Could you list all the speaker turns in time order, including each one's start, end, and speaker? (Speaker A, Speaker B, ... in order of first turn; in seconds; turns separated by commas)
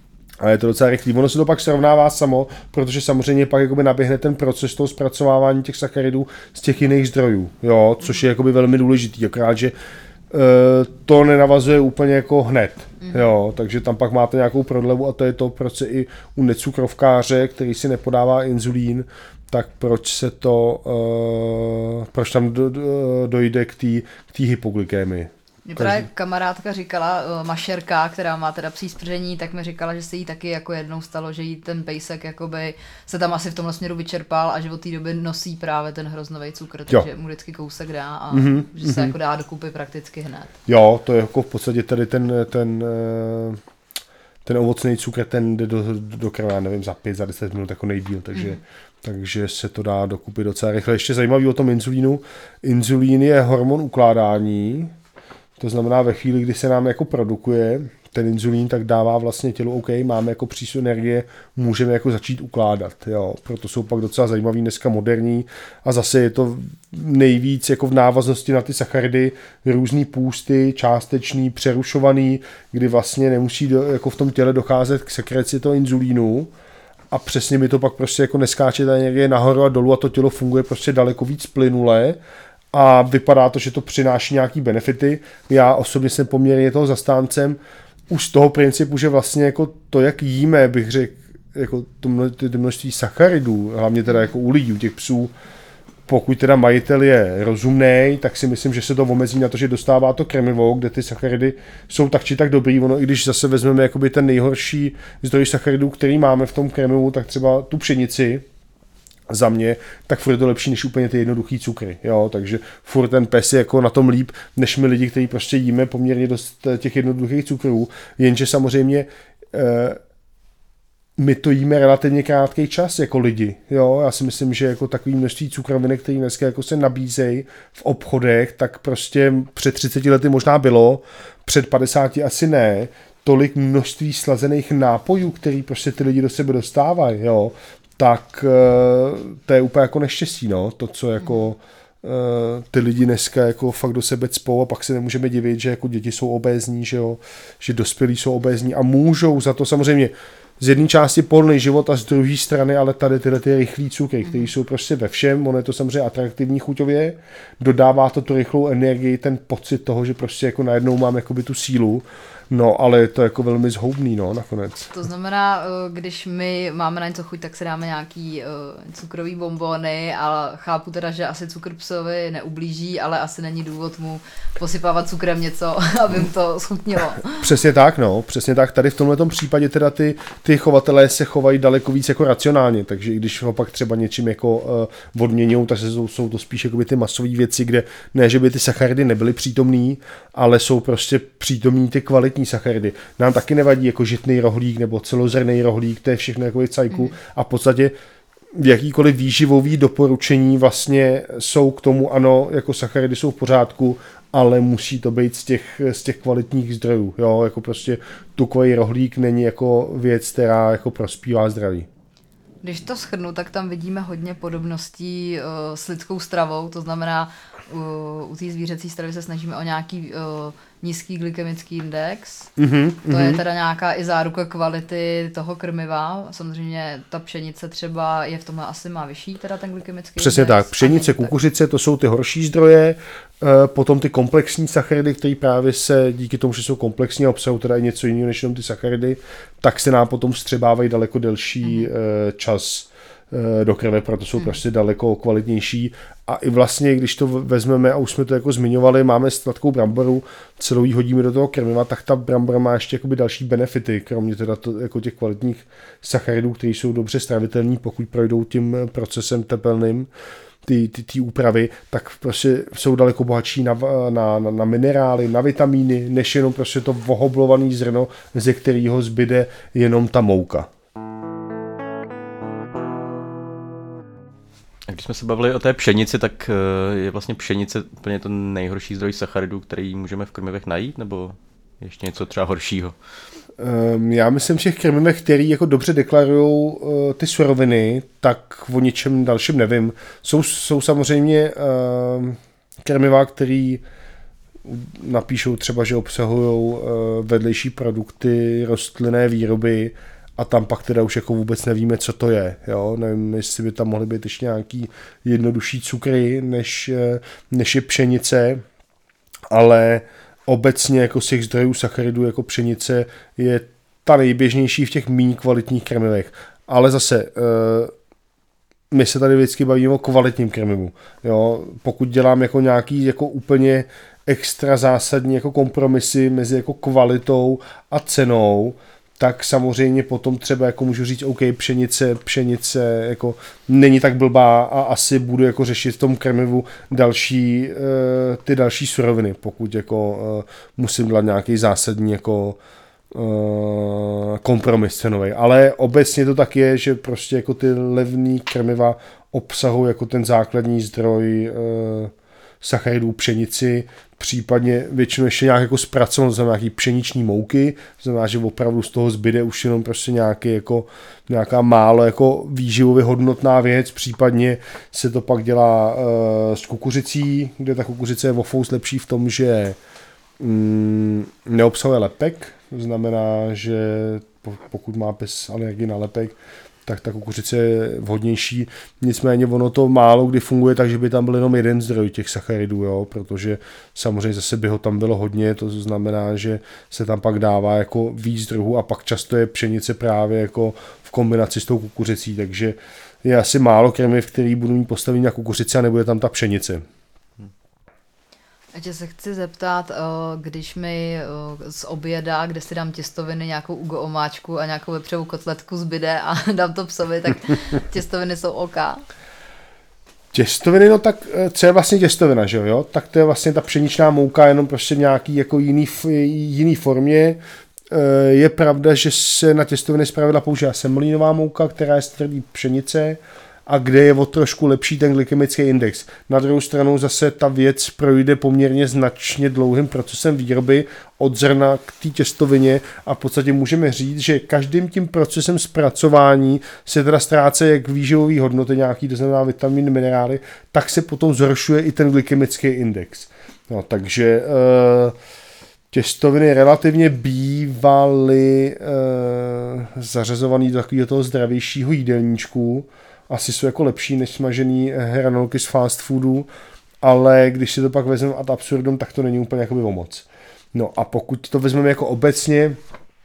Speaker A: 0.4-9.7, Speaker A: 10.3-26.0, Speaker B: 25.6-40.5, Speaker A: 38.3-39.1, Speaker A: 40.7-43.6, Speaker A: 44.4-54.9, Speaker B: 48.3-48.6, Speaker A: 55.6-76.5, Speaker A: 77.1-82.2, Speaker A: 82.7-87.6, Speaker A: 88.1-95.3, Speaker A: 96.1-108.4, Speaker A: 109.3-120.0, Speaker A: 121.2-164.9, Speaker B: 164.9-177.5, Speaker A: 177.4-197.9, Speaker A: 198.5-211.9, Speaker B: 212.6-222.5, Speaker A: 222.6-223.4, Speaker B: 223.1-231.3, Speaker A: 230.2-260.1, Speaker B: 241.7-241.9, Speaker A: 260.6-270.7, Speaker C: 274.9-282.9, Speaker A: 283.6-293.8, Speaker A: 294.6-308.6, Speaker A: 309.5-317.9, Speaker A: 318.9-342.6, Speaker A: 343.1-369.8, Speaker A: 370.4-396.8, Speaker B: 398.7-409.0, Speaker A: 410.3-445.1, Speaker A: 445.9-456.5, Speaker A: 457.0-462.8